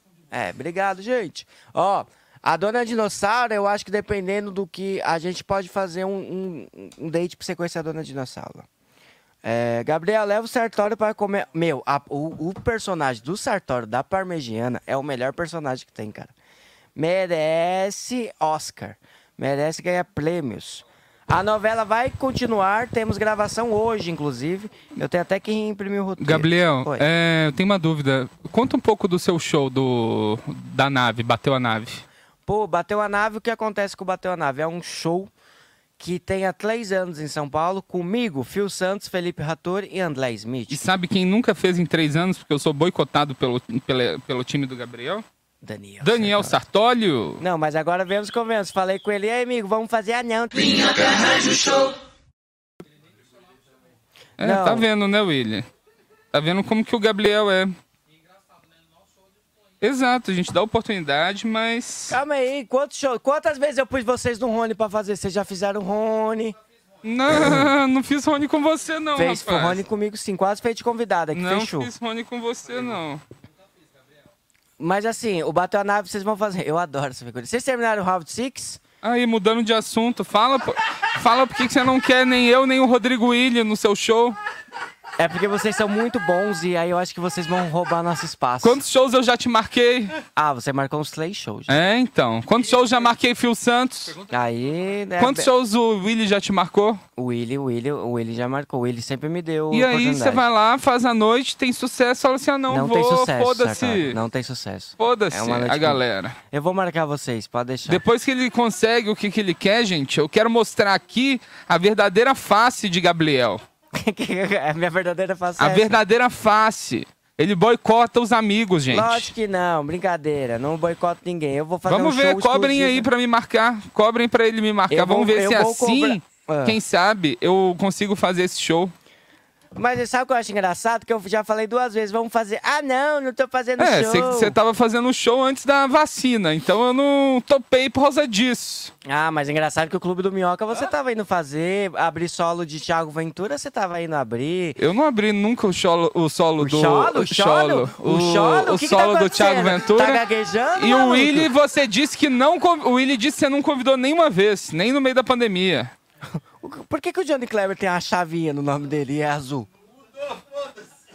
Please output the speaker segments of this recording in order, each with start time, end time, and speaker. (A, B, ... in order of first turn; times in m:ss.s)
0:00.3-0:08.7 A
0:09.4-0:16.3 A
0:17.0-0:27.1 A
0:26.2-0:32.0 B
0:32.5-0:35.3 A
0:36.0-0:40.8 A
0:40.7-0:45.2 B
0:45.6-0:46.6 A
0:46.0-0:47.4 B
0:47.4-0:51.8 A
0:54.4-0:54.9 A
0:54.4-0:55.7 B
0:56.3-0:57.8 B
0:59.8-1:02.2 B
1:02.1-1:06.6 A
1:07.0-1:09.8 B
1:07.3-1:07.7 A
1:09.2-1:11.9 A
1:11.3-1:13.2 B
1:14.8-1:18.8 A
1:19.0-1:24.4 B
1:25.2-1:28.8 A
1:28.6-1:30.2 B
1:30.4-1:31.8 A
1:31.7-1:34.2 B
1:34.3-1:35.5 A
1:35.2-1:37.0 B
1:37.2-1:40.4 A
1:39.7-1:44.2 B
1:42.7-1:48.0 A
1:45.0-1:46.4 B
1:47.9-1:53.6 B
1:53.9-1:56.0 A
1:55.6-1:59.3 B
1:58.9-2:03.1 A
2:01.9-2:08.9 B
2:04.9-2:06.8 A
2:09.8-2:14.6 A
2:13.8-2:18.9 B
2:19.0-2:24.8 A
2:24.8-2:30.2 B
2:26.6-2:31.5 A
2:30.8-2:36.0 B
2:36.6-2:39.7 A